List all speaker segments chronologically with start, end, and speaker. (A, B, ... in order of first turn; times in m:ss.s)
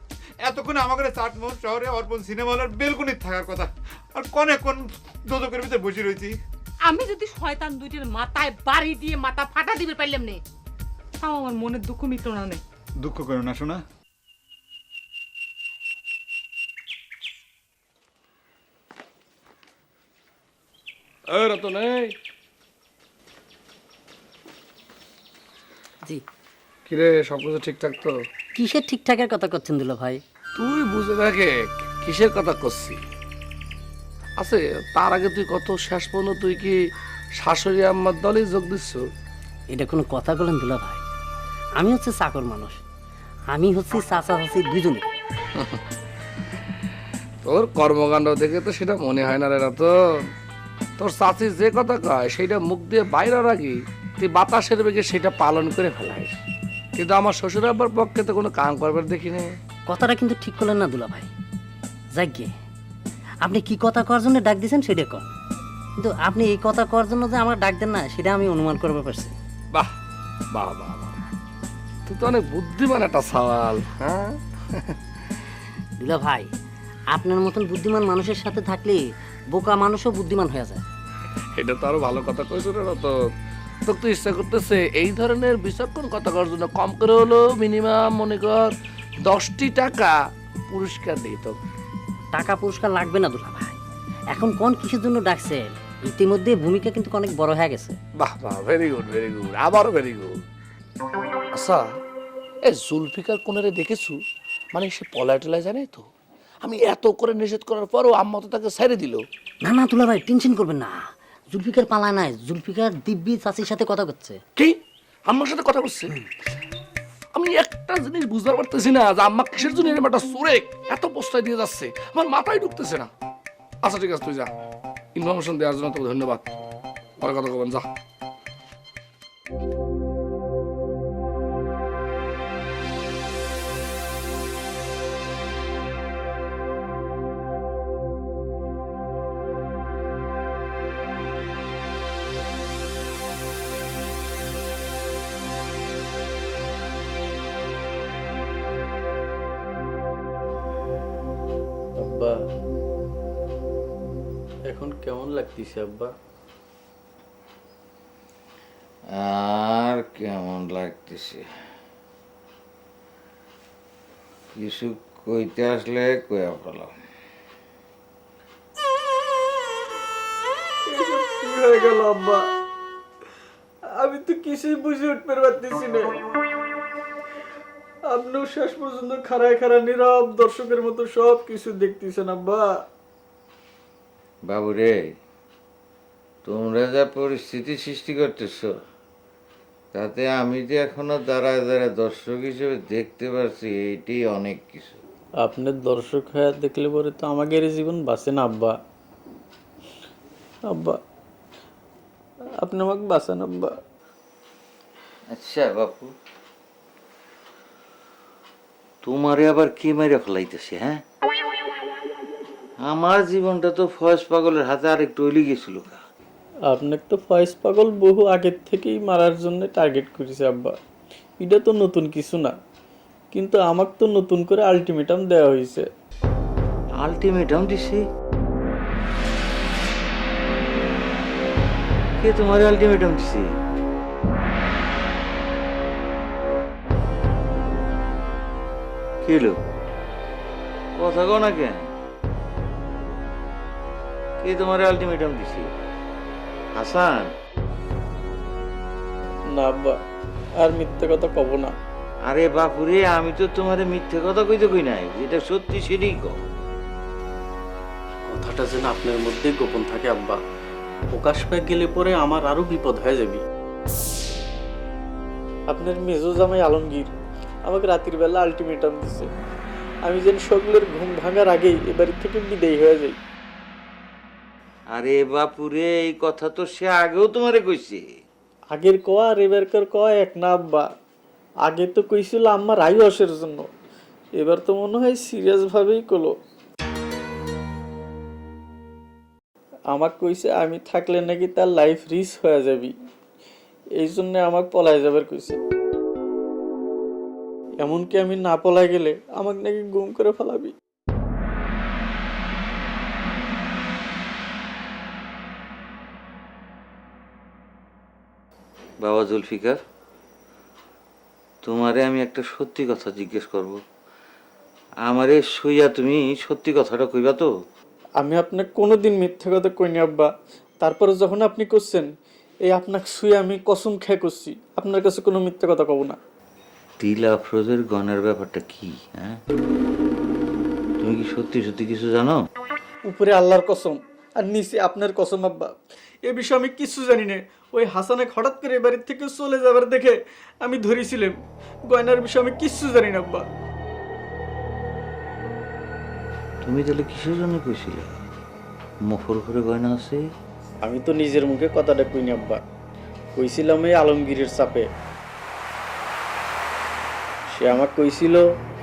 0:00.4-0:06.3 A
0:06.8-0:10.4 B
0:11.2-0:12.6 B
0:13.0-0:13.8 A
0:21.3-0:22.1 C
0:26.9-0:28.1 C
0:28.6-0:30.2 D
0:30.6-0:33.0 C
0:34.4-0:36.7 C
0:37.4-0:39.0 C
0:39.7-0:41.0 D
0:41.8-0:42.8 D
0:43.5-0:45.1 D
0:47.4-0:49.9 C
0:51.0-0:56.3 C
0:57.0-0:59.6 C
0:59.9-1:01.3 D
1:02.1-1:02.5 D
1:03.4-1:05.3 D
1:06.0-1:09.3 D
1:10.5-1:11.1 C
1:12.0-1:14.3 C
1:16.0-1:16.5 D
1:17.1-1:20.8 D
1:21.6-1:23.1 C
1:23.9-1:28.7 C
1:29.2-1:30.1 C
1:30.7-1:31.6 C
1:32.3-1:33.7 D
1:34.3-1:38.0 D
1:38.2-1:40.3 C
1:41.5-1:41.9 C
1:42.7-1:44.2 C
1:44.7-1:46.0 C
1:46.6-1:49.2 C
1:49.6-1:51.0 D
1:51.5-1:54.4 D
1:55.3-1:56.1 C
1:57.3-2:03.1 C
2:03.8-2:04.5 C
2:05.2-2:06.4 C
2:07.2-2:07.8 C
2:32.0-2:32.5 E
2:34.7-2:36.1 E
2:39.1-2:41.4 F
2:44.6-2:46.9 F
2:50.9-2:52.4 E
2:54.0-2:56.2 E
2:58.1-3:02.7 E
3:04.5-3:05.0 F
3:06.4-3:08.7 F
3:09.9-3:15.0 F
3:15.4-3:18.7 E
3:22.6-3:23.7 E
3:25.3-3:26.1 F
3:29.0-3:31.0 F
3:32.8-3:36.0 F
3:36.7-3:40.7 E
3:41.4-3:42.5 E
3:43.3-3:45.8 E
3:47.0-3:48.0 F
3:52.2-3:53.5 F
3:59.2-3:59.6 F
4:01.0-4:01.8 F
4:04.4-4:05.7 F
4:06.8-4:07.3 F
4:09.5-4:10.0 E
4:10.6-4:11.7 E
4:12.3-4:16.4 F
4:18.3-4:20.4 E
4:21.1-4:23.4 E
4:25.7-4:27.1 E
4:27.6-4:29.3 E
4:30.0-4:33.2 E
4:34.9-4:38.0 F
4:38.7-4:40.8 E
4:41.7-4:43.7 E
4:44.4-4:46.3 E
4:49.9-4:52.9 E
4:54.0-4:55.6 E
4:57.8-5:00.7 E
5:09.0-5:09.8 F
5:11.6-5:13.8 F
5:15.0-5:17.5 F
5:18.2-5:20.3 E
5:20.8-5:22.1 E
5:22.7-5:26.2 E
5:27.0-5:29.4 F
5:31.0-5:32.4 F
5:33.1-5:35.7 E
5:36.3-5:41.3 E
5:41.9-5:43.4 E
5:46.6-5:48.1 F
5:49.1-5:50.2 F
5:50.8-5:52.6 E
5:53.4-5:54.9 E
5:57.5-5:58.4 E